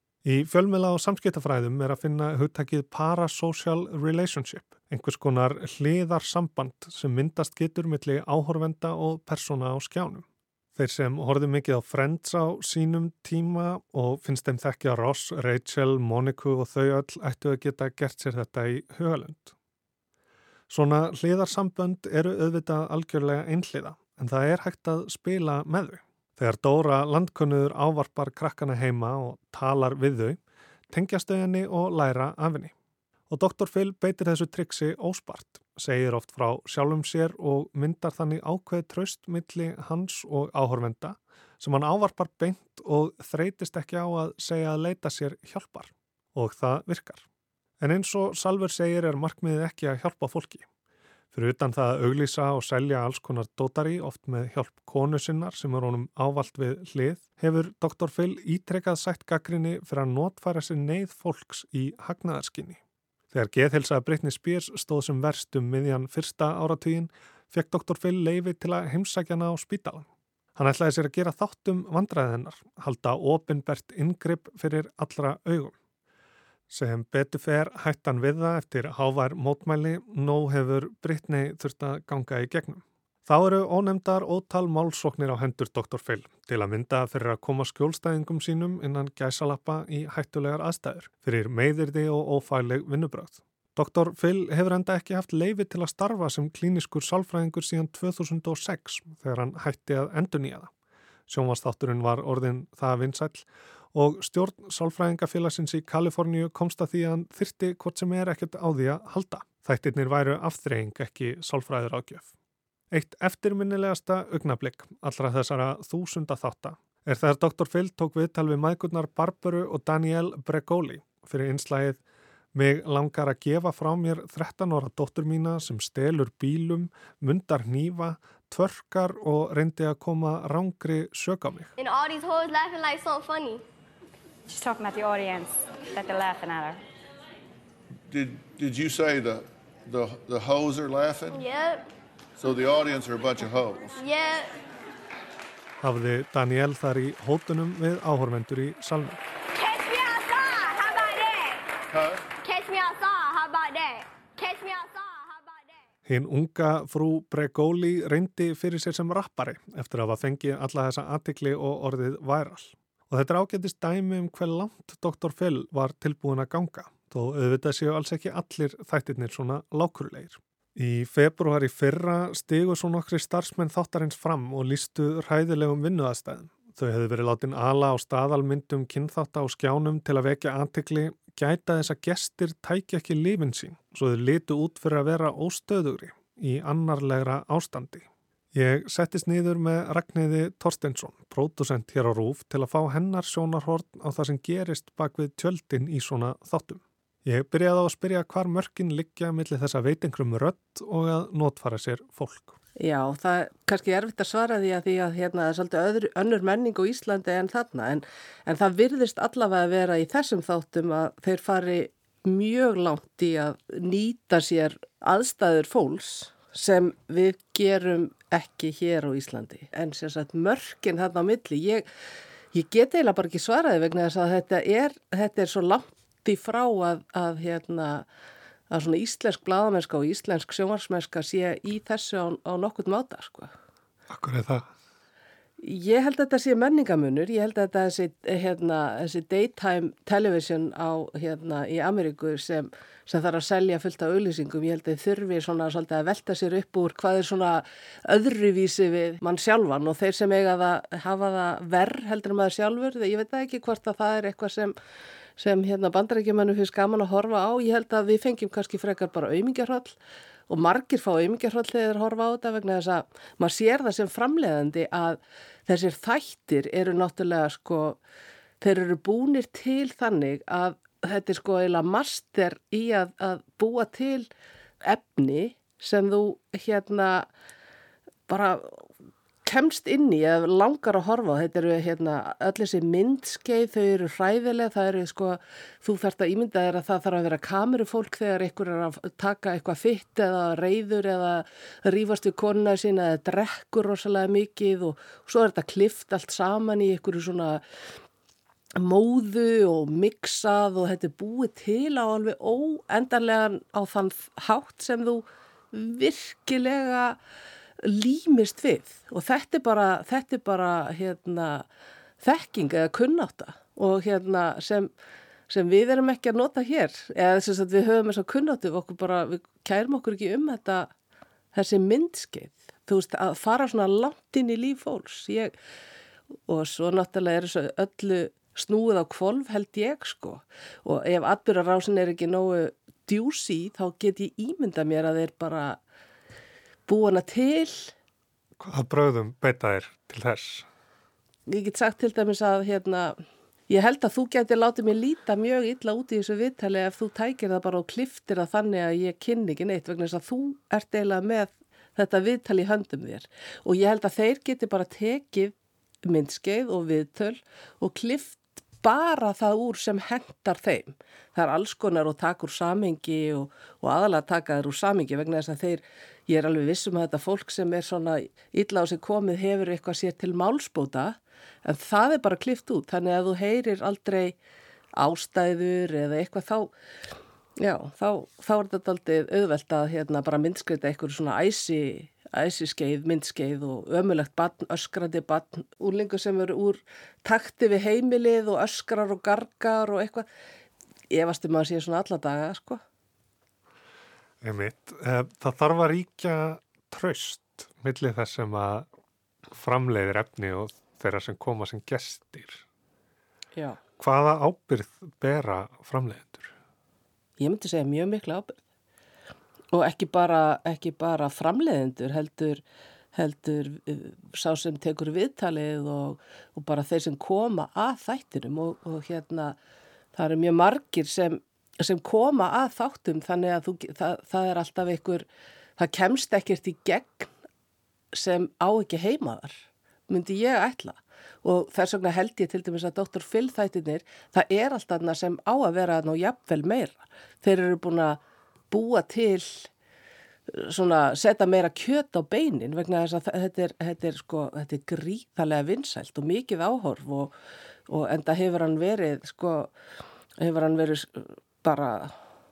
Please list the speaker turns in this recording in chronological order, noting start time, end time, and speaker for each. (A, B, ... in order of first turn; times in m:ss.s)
0:00.2-0:19.5 A
0:20.7-0:30.4 A
0:30.9-0:32.7 A
0:33.3-0:47.2 A
0:47.8-0:50.6 A
0:51.3-1:02.8 A
1:03.3-1:15.7 A
1:16.7-1:40.7 A
1:41.3-1:52.3 A
1:52.9-2:02.0 A
2:02.5-2:11.7 A
2:11.8-2:13.6 B
2:14.5-2:16.8 C
2:18.1-2:21.4 D
2:21.3-2:21.9 B
2:22.4-2:23.9 D
2:23.9-2:24.5 B
2:25.8-2:29.2 A
2:29.5-2:31.6 B
2:31.9-2:32.2 D
2:32.3-2:35.7 B
2:36.0-3:22.6 A
3:22.8-3:41.8 E
3:42.5-3:48.0 E
3:48.7-3:53.5 E
3:54.1-3:54.7 A
3:55.6-4:14.7 E
4:15.4-4:20.0 E
4:20.5-4:28.0 E
4:28.6-4:34.3 E
4:34.8-4:37.3 E
4:38.3-4:38.8 E
4:39.4-4:57.6 E
4:58.8-5:07.2 E
5:07.8-5:11.6 E
5:12.2-5:14.9 E
5:15.5-5:20.9 E
5:21.5-5:25.5 E
5:26.5-5:35.8 E
5:36.9-5:37.9 E
5:38.6-5:40.6 A
5:41.5-5:43.2 E
5:43.7-6:14.4 E
6:15.0-6:16.7 E
6:17.6-6:30.2 E
6:31.1-6:32.8 E
6:34.4-6:38.9 A
6:39.5-6:42.6 A
6:44.0-6:46.5 A
6:47.4-6:48.5 E
6:49.7-6:52.6 E
6:53.1-6:59.6 E
7:00.1-7:07.3 E
7:08.1-7:18.2 E
7:18.7-7:19.7 E
7:20.5-7:27.3 E
7:27.9-7:29.7 E
7:30.4-7:32.1 E